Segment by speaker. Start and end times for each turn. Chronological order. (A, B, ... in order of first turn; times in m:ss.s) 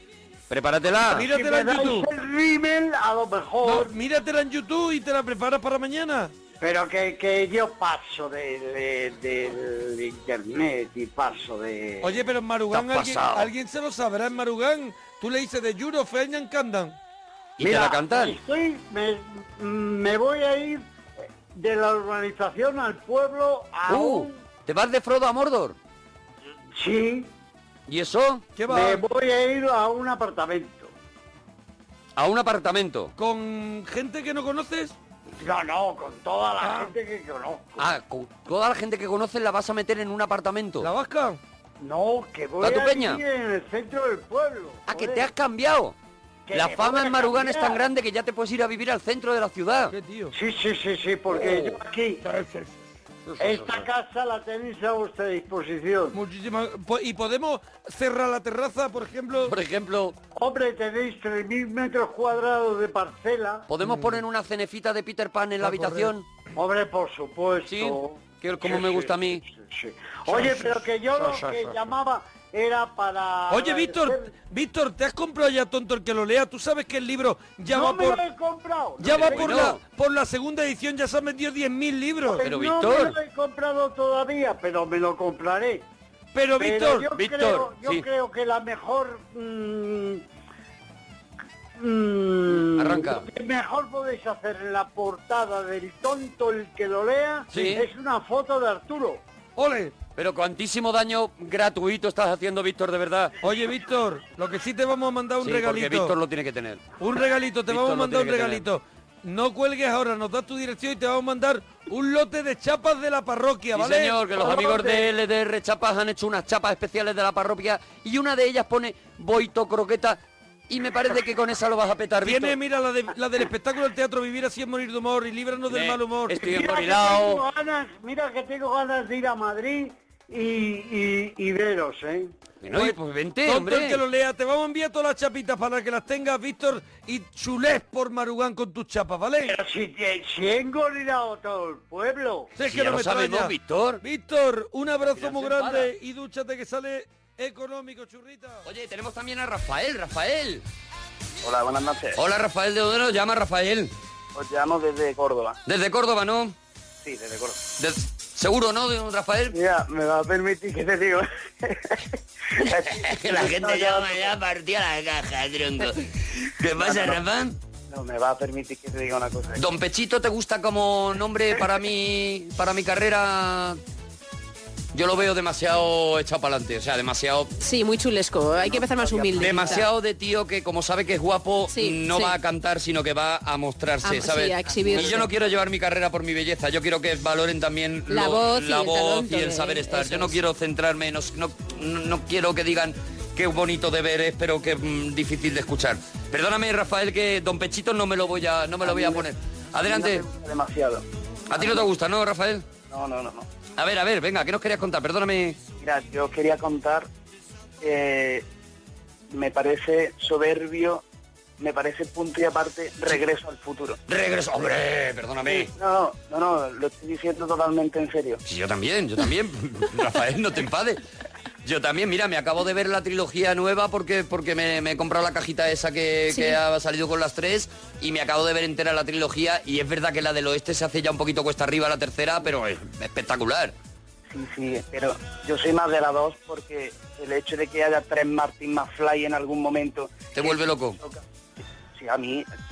0:00.5-0:01.3 A
0:01.0-0:02.1 B
0:01.3-0:03.9 C
0:03.6-0:06.3 B
0:06.6-0:12.2 C
0:12.0-0:17.0 B
0:12.7-0:13.5 A
0:17.6-0:18.4 A
0:17.6-0:20.8 C
0:21.5-0:24.4 C
0:23.9-0:25.8 A
0:26.7-0:27.3 C
0:27.9-0:28.4 A
0:28.6-0:29.0 B
0:28.7-0:30.9 C
0:32.2-0:33.1 A
0:33.2-0:34.9 B
0:35.4-0:37.8 C
0:36.6-0:36.9 B
0:37.8-0:40.9 A
0:40.8-0:41.4 B
0:41.8-0:45.3 C
0:42.6-0:43.2 A
0:44.9-0:45.9 A
0:46.5-0:47.9 C
0:46.5-0:49.9 A
0:49.9-0:50.3 B
0:50.3-0:52.2 C
0:51.4-0:51.7 A
0:52.2-0:52.7 B
0:53.3-0:53.9 A
0:53.4-0:56.2 C
0:56.1-0:59.5 B
0:59.4-1:00.2 A
1:00.3-1:03.7 C
1:03.7-1:06.2 A
1:05.6-1:06.1 B
1:06.6-1:14.3 C
1:07.6-1:09.4 A
1:10.3-1:10.6 A
1:11.2-1:11.8 A
1:13.5-1:18.2 B
1:17.7-1:19.7 C
1:19.0-1:22.4 B
1:19.1-1:19.8 A
1:22.2-1:25.8 C
1:22.4-1:23.2 A
1:26.3-1:27.1 B
1:26.6-1:30.2 C
1:27.1-1:28.0 A
1:31.8-1:39.2 C
1:32.6-1:33.2 A
1:37.5-1:37.8 A
1:39.6-1:40.0 B
1:40.2-1:43.3 A
1:43.4-1:46.1 B
1:45.4-1:46.8 A
1:47.0-1:54.4 B
1:47.7-1:48.6 A
1:53.7-2:02.6 A
1:54.5-1:55.0 C
2:02.2-2:06.4 B
2:05.7-2:07.4 A
2:06.4-2:12.3 C
2:12.6-2:14.0 A
2:12.7-2:19.6 B
2:19.4-2:22.5 C
2:22.6-2:28.6 B
2:22.7-2:24.0 A
2:25.1-2:25.9 A
2:28.6-2:30.6 A
2:31.4-2:32.2 D
2:32.2-2:33.9 A
2:34.3-2:35.6 D
2:35.6-2:36.5 A
2:37.0-2:37.6 D
2:37.8-2:39.6 A
2:39.5-2:44.3 D
2:42.9-2:47.5 A
2:46.8-2:47.2 D
2:47.9-2:49.6 D
2:49.6-2:53.8 A
2:54.9-2:57.5 A
2:57.6-2:59.8 E
2:58.5-2:59.8 D
2:59.4-3:20.2 A
3:01.7-3:02.4 E
3:04.0-3:05.3 E
3:08.1-3:10.4 E
3:18.8-3:19.3 D
3:19.9-3:21.0 D
3:21.5-3:22.7 A
3:22.9-3:23.5 D
3:23.8-3:25.6 A
3:25.8-3:27.1 D
3:27.8-3:28.4 D
3:29.3-3:31.0 D
3:31.6-3:34.0 D
3:34.1-3:35.7 A
3:35.5-3:38.4 D
3:38.4-3:41.0 A
3:41.6-3:53.7 A
3:46.3-3:46.6 E
3:54.3-4:01.2 D
4:00.3-4:01.0 A
4:01.9-4:02.5 D